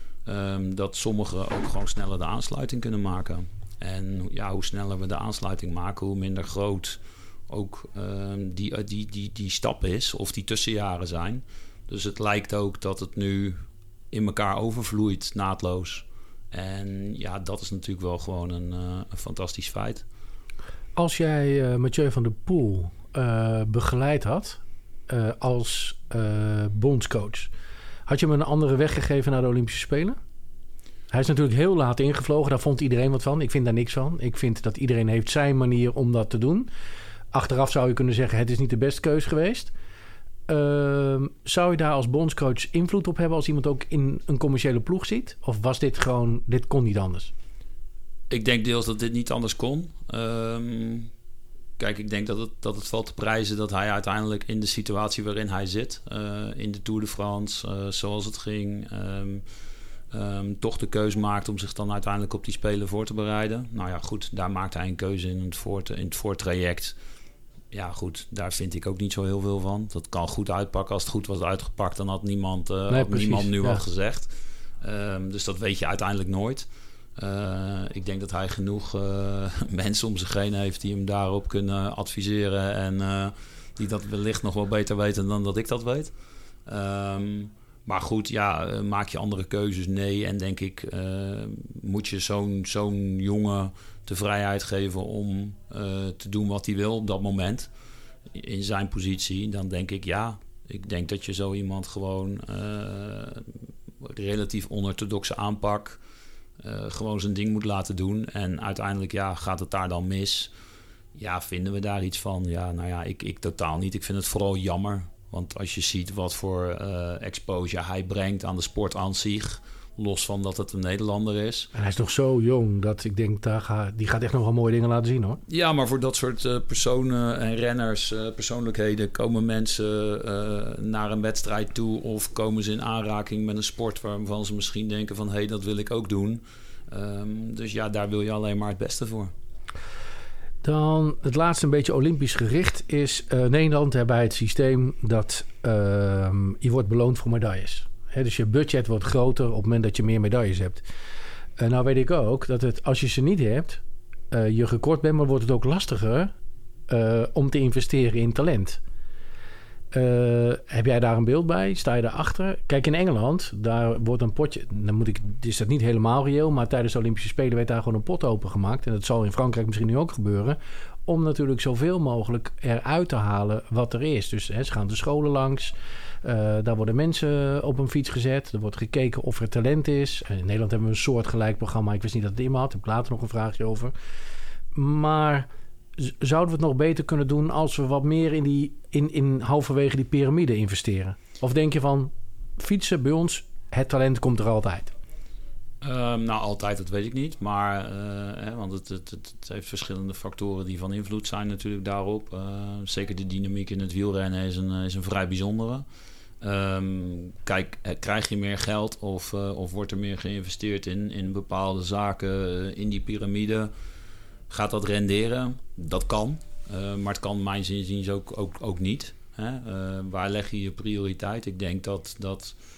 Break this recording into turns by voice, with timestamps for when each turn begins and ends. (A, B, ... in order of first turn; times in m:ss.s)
0:00.3-0:20.0 A
0:21.0-0:27.5 B
0:28.1-0:30.2 B
0:31.1-0:36.7 B
0:37.3-0:39.7 B
0:40.5-0:47.3 B
0:48.3-0:51.1 A
0:51.8-0:59.4 A
1:00.1-1:07.0 A
1:07.7-1:26.1 A
1:12.9-1:13.8 B
1:26.7-1:37.7 A
1:38.3-1:46.0 A
1:46.6-1:50.5 A
1:51.2-2:01.7 A
2:01.7-2:05.4 B
2:05.5-2:19.3 A
2:20.6-2:30.8 B
2:31.6-2:36.3 B
2:36.9-2:38.8 B
2:39.9-2:55.7 B
2:56.2-3:03.9 B
3:04.8-3:14.9 B
3:15.8-3:25.8 A
3:26.4-3:33.7 A
3:34.5-3:42.6 A